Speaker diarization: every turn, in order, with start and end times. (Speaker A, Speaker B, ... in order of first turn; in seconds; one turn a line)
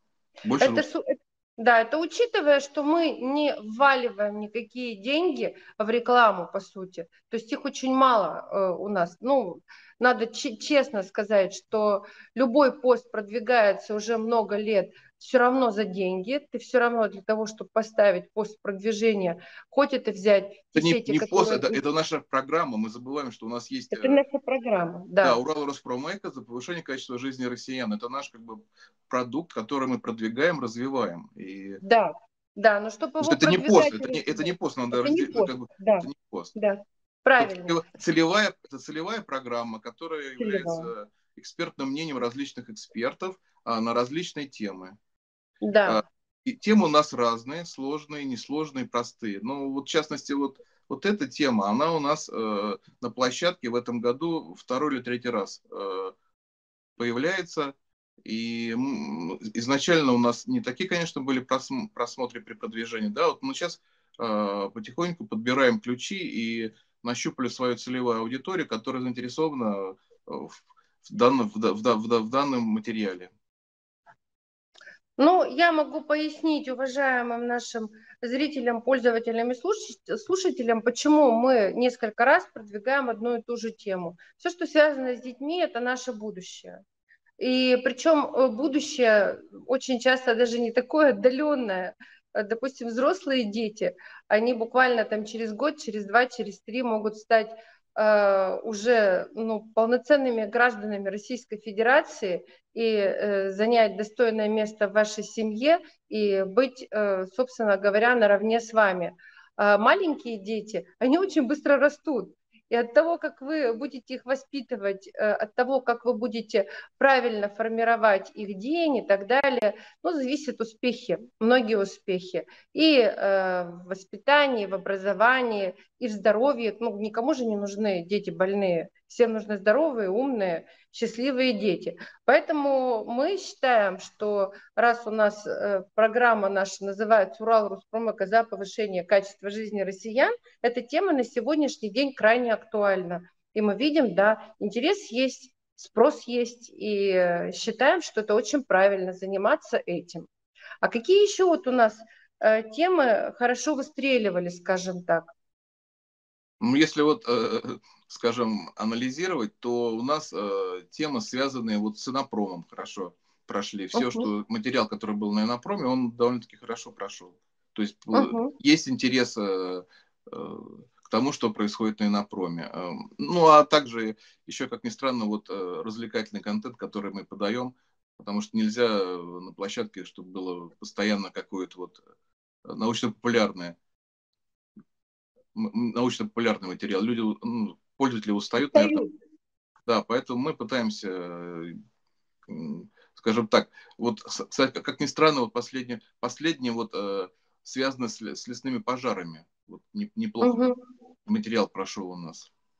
Speaker A: 0.4-0.8
Speaker B: 0.6-21.8
Speaker A: 20.8-24.2
Speaker B: 23.9-25.4
Speaker A: 25.2-31.8
Speaker B: 31.8-37.8
Speaker A: 33.2-36.5
Speaker A: 37.4-45.0
Speaker B: 40.4-40.9
Speaker B: 45.6-46.0
Speaker A: 45.9-56.1
Speaker A: 57.0-73.3
Speaker B: 75.2-86.8
Speaker B: 87.4-150.3
Speaker B: 150.8-155.3
Speaker A: 156.6-182.0
Speaker B: 163.9-164.3
Speaker B: 168.1-168.5
Speaker A: 182.7-183.8
Speaker A: 185.6-189.0
Speaker B: 188.6-189.1
Speaker A: 189.9-191.8
Speaker A: 192.5-200.6
Speaker B: 200.4-200.8
Speaker A: 201.3-202.5